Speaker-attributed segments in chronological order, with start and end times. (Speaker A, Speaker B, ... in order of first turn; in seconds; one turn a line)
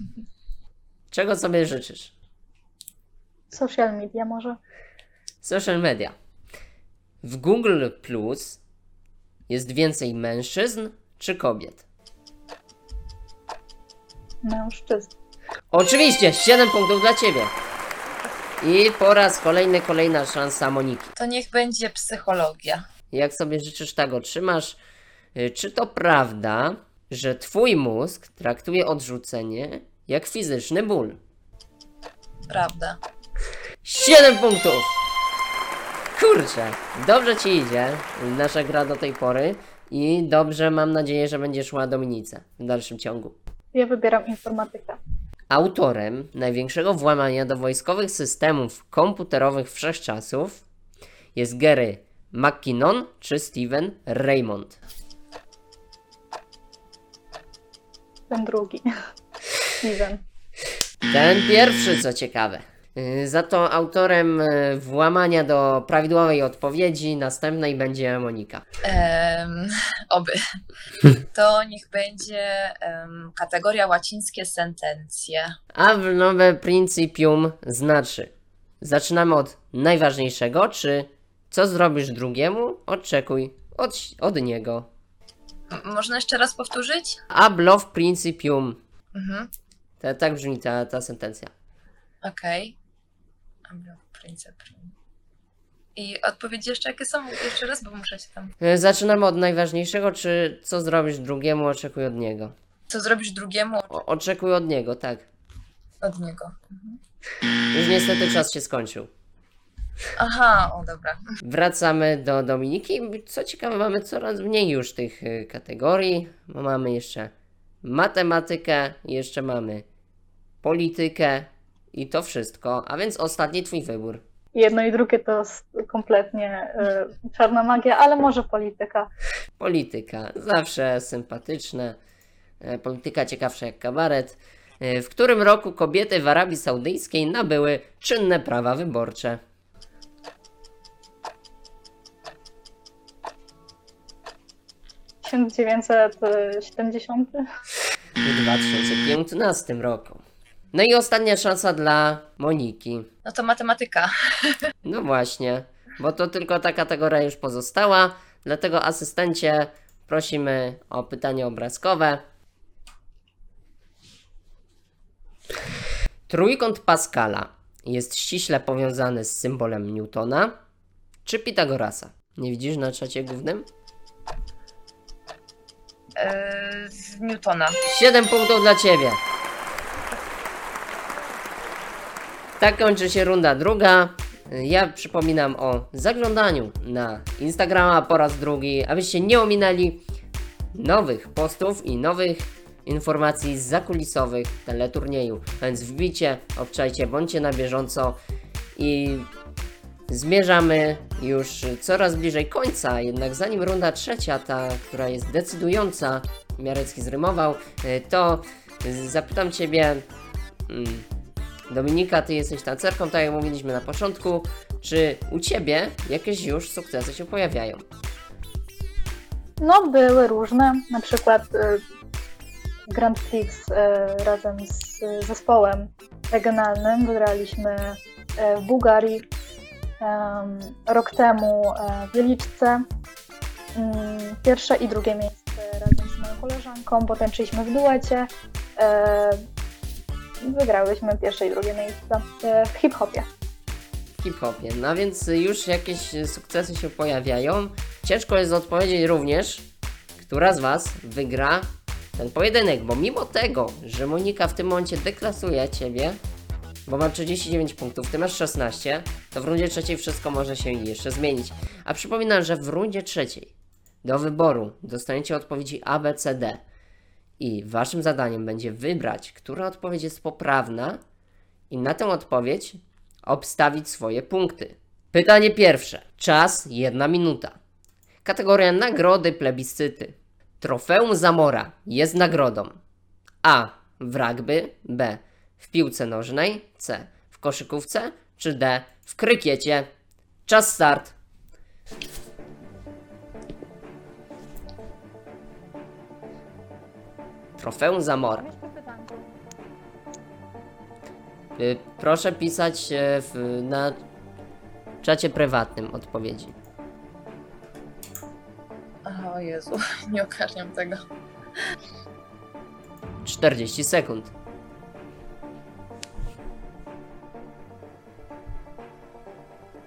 Speaker A: 1.1-2.1
Speaker B: 3.5-4.6
Speaker A: 5.4-6.1
Speaker A: 7.2-8.6
Speaker A: 9.5-11.8
Speaker B: 14.4-15.1
Speaker A: 15.7-17.5
Speaker A: 18.6-21.1
Speaker C: 21.2-22.8
Speaker A: 23.1-24.8
Speaker A: 25.3-31.2
Speaker C: 32.5-33.0
Speaker A: 33.8-34.9
Speaker A: 36.1-43.4
Speaker B: 43.7-45.0
Speaker A: 45.5-50.6
Speaker A: 51.3-54.8
Speaker B: 58.3-58.8
Speaker B: 59.8-60.2
Speaker A: 61.1-68.6
Speaker C: 68.8-70.4
Speaker C: 71.3-75.5
Speaker A: 75.7-84.9
Speaker C: 85.7-87.2
Speaker A: 87.3-88.8
Speaker C: 89.1-89.5
Speaker A: 90.0-91.5
Speaker C: 92.2-92.7
Speaker C: 93.7-94.9
Speaker C: 96.0-98.5
Speaker A: 98.6-102.5
Speaker C: 102.9-103.9
Speaker A: 103.9-105.2
Speaker C: 106.0-107.0
Speaker A: 107.7-109.1
Speaker C: 110.2-111.2
Speaker A: 111.4-117.3
Speaker A: 117.8-119.8
Speaker A: 120.6-124.2
Speaker B: 124.5-129.1
Speaker A: 129.6-131.9
Speaker A: 132.6-139.4
Speaker B: 145.2-147.4
Speaker A: 148.2-153.1
Speaker C: 153.2-154.6
Speaker A: 154.8-162.2
Speaker A: 166.3-170.5
Speaker A: 171.2-173.6
Speaker C: 176.2-177.8
Speaker A: 177.8-179.2
Speaker A: 182.6-190.0
Speaker A: 190.7-198.2
Speaker A: 198.8-199.3
Speaker A: 200.1-210.0
Speaker A: 210.7-211.1
Speaker A: 211.7-217.8
Speaker B: 219.6-221.8
Speaker B: 222.9-229.2
Speaker B: 230.0-232.8
Speaker B: 233.8-239.4
Speaker B: 240.4-243.2
Speaker A: 244.2-249.6
Speaker A: 250.2-256.2
Speaker A: 256.9-263.5
Speaker A: 264.0-266.6
Speaker A: 267.4-271.0
Speaker A: 271.7-277.6
Speaker A: 278.2-282.8
Speaker A: 283.4-289.9
Speaker A: 290.5-291.1
Speaker A: 297.6-298.5
Speaker B: 298.4-299.4
Speaker A: 301.6-304.0
Speaker A: 305.0-306.5
Speaker C: 309.0-311.0
Speaker A: 313.2-314.3